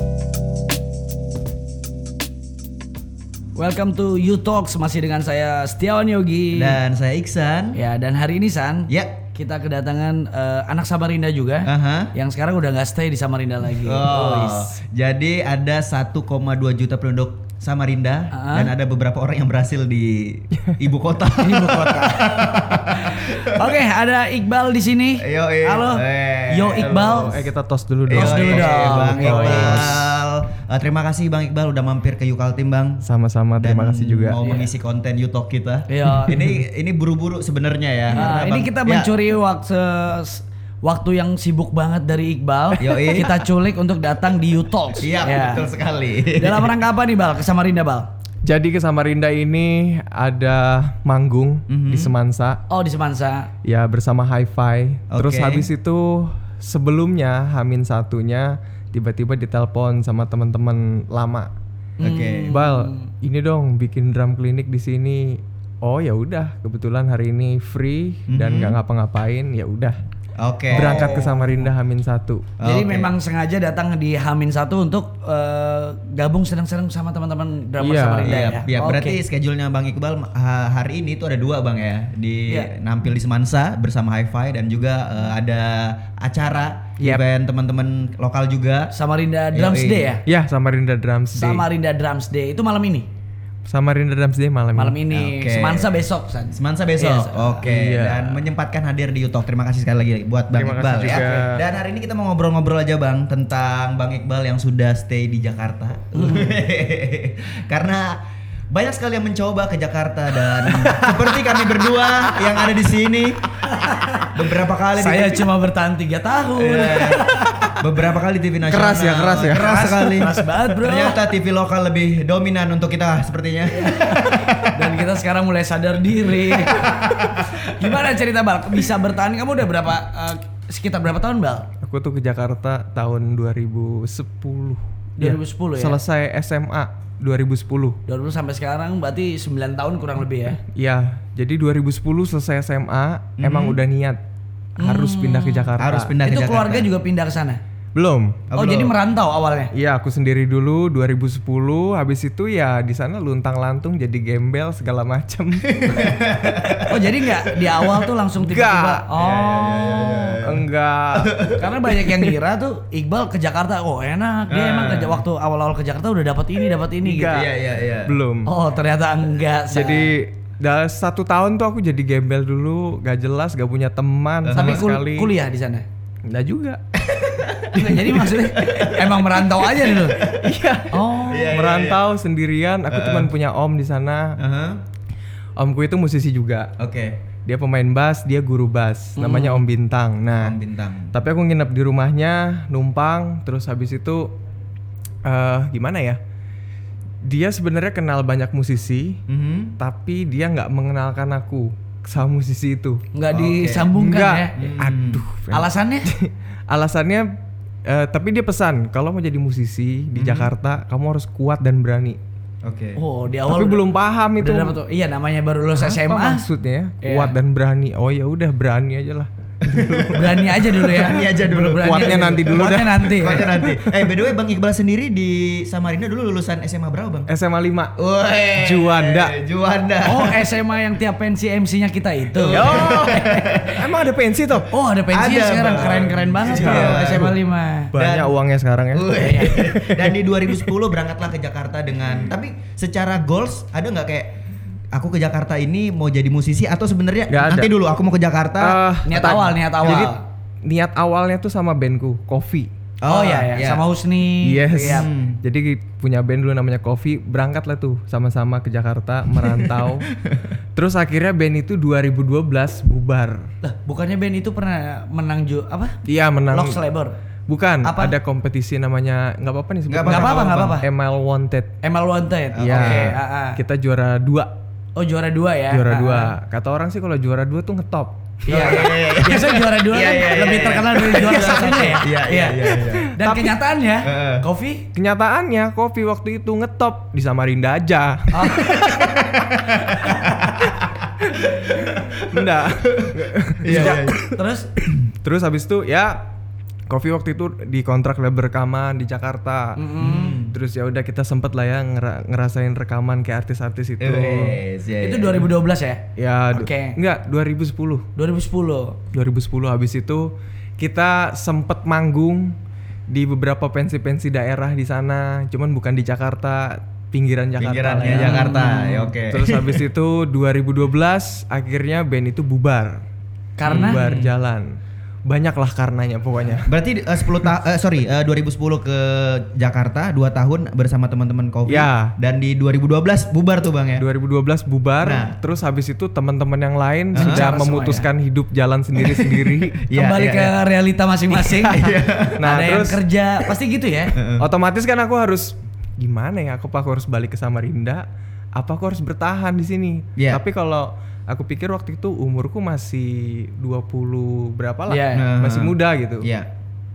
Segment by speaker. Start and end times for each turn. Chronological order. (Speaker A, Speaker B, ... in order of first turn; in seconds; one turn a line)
Speaker A: 3.6-6.8
Speaker B: 6.5-7.8
Speaker A: 7.8-14.7
Speaker B: 8.9-9.2
Speaker B: 11.7-12.1
Speaker B: 13.8-23.7
Speaker A: 18.3-18.7
Speaker A: 21.4-27.4
Speaker B: 25.2-27.5
Speaker C: 26.9-30.0
Speaker B: 28.1-33.0
Speaker A: 28.1-30.0
Speaker C: 33.0-34.4
Speaker B: 33.6-39.1
Speaker A: 34.4-34.7
Speaker A: 35.9-36.6
Speaker A: 38.1-45.7
Speaker B: 42.8-43.5
Speaker B: 45.0-46.7
Speaker A: 46.4-48.1
Speaker C: 48.4-52.6
Speaker B: 51.7-52.1
Speaker A: 52.7-53.5
Speaker C: 53.6-61.5
Speaker B: 55.1-55.7
Speaker A: 62.0-63.1
Speaker B: 62.0-62.6
Speaker C: 62.5-70.0
Speaker B: 68.3-68.8
Speaker B: 70.4-71.7
Speaker C: 70.7-72.5
Speaker A: 70.7-71.5
Speaker B: 72.6-73.1
Speaker A: 72.6-79.2
Speaker C: 77.8-78.5
Speaker B: 78.2-88.9
Speaker A: 88.9-90.2
Speaker B: 89.5-90.2
Speaker C: 90.3-91.7
Speaker A: 91.3-93.1
Speaker C: 93.7-95.0
Speaker A: 94.8-97.7
Speaker B: 95.1-95.9
Speaker B: 96.5-113.4
Speaker C: 97.6-98.4
Speaker C: 100.5-101.6
Speaker A: 101.0-101.5
Speaker A: 106.1-106.6
Speaker C: 110.7-111.3
Speaker A: 113.6-114.3
Speaker B: 114.3-115.5
Speaker A: 115.0-117.7
Speaker B: 116.6-125.0
Speaker C: 117.5-117.8
Speaker C: 118.7-119.9
Speaker A: 119.5-121.2
Speaker A: 123.8-131.7
Speaker B: 126.5-127.6
Speaker C: 131.8-138.0
Speaker A: 135.2-136.0
Speaker A: 138.1-140.6
Speaker C: 140.7-144.2
Speaker B: 143.4-143.8
Speaker C: 144.8-146.1
Speaker A: 144.8-145.7
Speaker B: 145.8-146.9
Speaker A: 146.2-147.6
Speaker C: 147.9-148.4
Speaker B: 148.5-148.9
Speaker A: 148.5-149.7
Speaker C: 149.7-156.9
Speaker B: 155.7-157.9
Speaker A: 156.8-160.4
Speaker C: 158.4-159.1
Speaker B: 159.1-161.8
Speaker C: 160.4-161.5
Speaker A: 161.6-167.4
Speaker B: 164.5-165.2
Speaker C: 167.0-168.5
Speaker B: 167.2-168.2
Speaker A: 168.4-170.1
Speaker C: 169.7-175.3
Speaker B: 174.4-174.9
Speaker A: 174.5-175.8
Speaker C: 176.3-178.4
Speaker B: 177.4-177.8
Speaker A: 177.7-180.3
Speaker B: 178.6-180.5
Speaker C: 180.2-184.4
Speaker A: 180.9-181.5
Speaker B: 181.3-182.0
Speaker B: 182.9-183.3
Speaker B: 184.4-184.8
Speaker C: 185.6-186.7
Speaker B: 186.8-187.2
Speaker C: 187.4-190.6
Speaker A: 189.2-189.7
Speaker B: 190.4-191.1
Speaker C: 191.1-194.3
Speaker C: 195.2-196.2
Speaker C: 197.2-199.2
Speaker B: 199.3-199.8
Speaker C: 199.8-203.0
Speaker A: 203.1-204.6
Speaker B: 203.3-204.0
Speaker C: 204.0-207.3
Speaker B: 204.6-205.2
Speaker A: 205.5-206.1
Speaker C: 207.9-212.2
Speaker B: 210.2-210.5
Speaker B: 212.6-213.0
Speaker A: 213.0-213.9
Speaker C: 213.5-214.8
Speaker A: 214.4-216.4
Speaker C: 215.8-224.2
Speaker A: 217.0-217.3
Speaker B: 219.6-227.3
Speaker A: 220.1-223.5
Speaker C: 227.3-227.9
Speaker B: 228.0-230.5
Speaker C: 228.6-229.4
Speaker A: 230.0-233.4
Speaker B: 232.3-233.8
Speaker C: 232.5-234.7
Speaker A: 234.7-237.9
Speaker B: 235.1-237.4
Speaker C: 236.5-237.3
Speaker C: 237.9-240.7
Speaker B: 237.9-238.3
Speaker B: 238.9-244.4
Speaker A: 239.2-239.5
Speaker B: 244.9-248.8
Speaker C: 247.3-247.7
Speaker C: 248.6-252.7
Speaker A: 249.1-250.2
Speaker B: 253.0-253.8
Speaker A: 253.1-255.1
Speaker C: 254.4-260.1
Speaker B: 254.8-255.4
Speaker B: 259.4-260.5
Speaker C: 260.8-263.5
Speaker A: 263.6-266.0
Speaker C: 266.1-266.8
Speaker A: 266.5-267.1
Speaker C: 267.5-271.8
Speaker A: 267.8-268.1
Speaker B: 269.9-270.8
Speaker A: 270.0-270.9
Speaker A: 271.8-273.6
Speaker B: 272.5-273.2
Speaker C: 272.6-274.5
Speaker A: 275.0-276.3
Speaker C: 275.7-278.9
Speaker A: 278.4-284.9
Speaker B: 278.5-283.1
Speaker C: 281.1-282.0
Speaker C: 282.9-283.6
Speaker B: 284.0-284.4
Speaker C: 284.9-290.2
Speaker A: 288.3-288.9
Speaker B: 288.6-294.2
Speaker C: 291.2-294.4
Speaker A: 293.7-294.7
Speaker C: 295.2-296.2
Speaker C: 296.9-299.8
Speaker A: 299.8-300.4
Speaker B: 300.0-300.6
Speaker C: 300.5-304.6
Speaker B: 304.0-305.5
Speaker A: 305.0-307.0
Speaker C: 306.2-308.1
Speaker A: 308.2-309.0
Speaker C: 309.1-312.6
Speaker C: 313.1-318.6
Speaker B: 317.6-319.8
Speaker A: 318.0-319.1
Speaker C: 319.2-323.0
Speaker A: 323.6-324.0
Speaker C: 323.7-324.8
Speaker B: 323.7-324.3
Speaker C: 325.3-326.8
Speaker B: 326.6-334.1
Speaker C: 331.7-332.1
Speaker C: 334.0-339.8
Speaker B: 335.0-335.4
Speaker B: 337.1-337.5
Speaker A: 337.2-338.1
Speaker B: 339.0-340.5
Speaker A: 339.9-341.8
Speaker B: 341.6-342.4
Speaker C: 341.7-343.0
Speaker A: 342.4-344.2
Speaker B: 344.1-344.5
Speaker C: 344.4-356.3
Speaker B: 350.2-350.4
Speaker A: 354.9-355.3
Speaker B: 355.1-356.5